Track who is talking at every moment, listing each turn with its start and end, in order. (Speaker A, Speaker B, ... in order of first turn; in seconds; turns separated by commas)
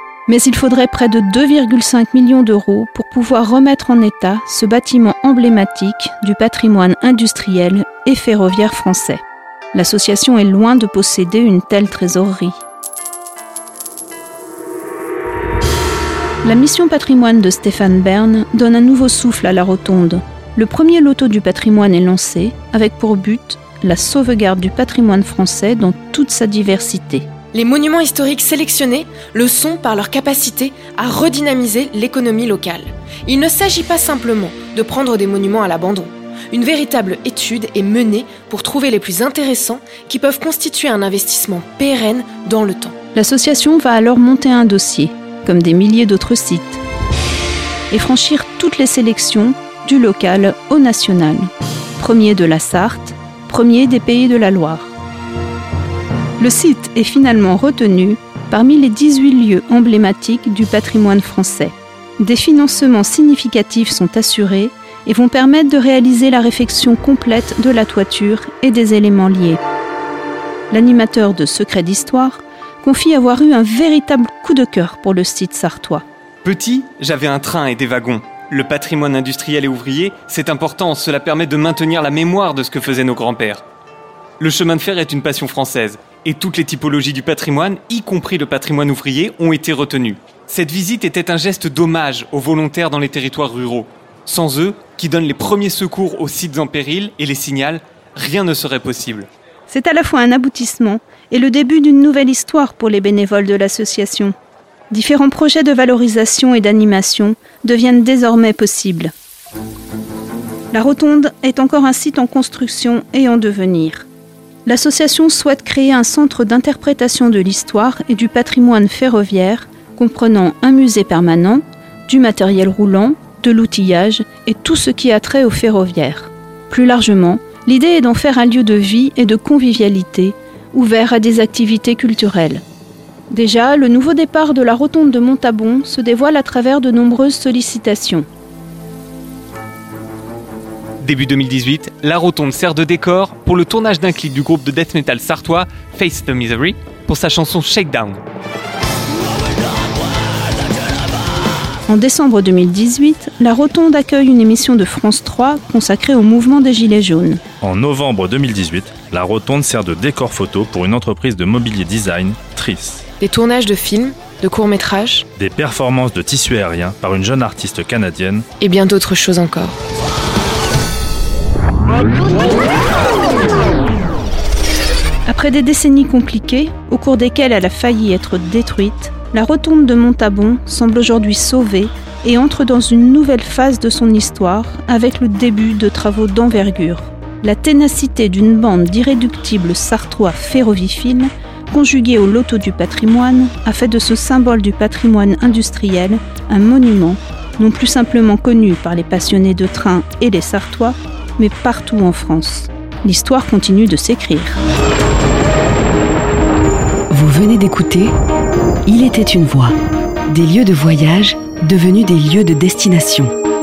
Speaker A: 0.3-12.6, Speaker A: 16.4-27.3, Speaker B: 27.5-42.9, Speaker A: 43.1-46.8, Speaker A: 47.9-54.9, Speaker A: 56.4-69.6, Speaker A: 70.7-76.0, Speaker C: 76.4-83.6, Speaker C: 84.4-99.3, Speaker A: 99.7-104.3, Speaker A: 104.9-109.1, Speaker A: 110.7-114.1, Speaker A: 114.6-132.6, Speaker A: 133.3-138.2, Speaker C: 141.0-148.2, Speaker A: 151.9-157.4, Speaker D: 157.6-163.0, Speaker B: 163.2-165.2, Speaker D: 165.3-168.4, Speaker B: 168.6-169.8, Speaker A: 175.2-204.6, Speaker E: 207.1-208.1, Speaker E: 208.9-209.7, Speaker E: 210.3-213.3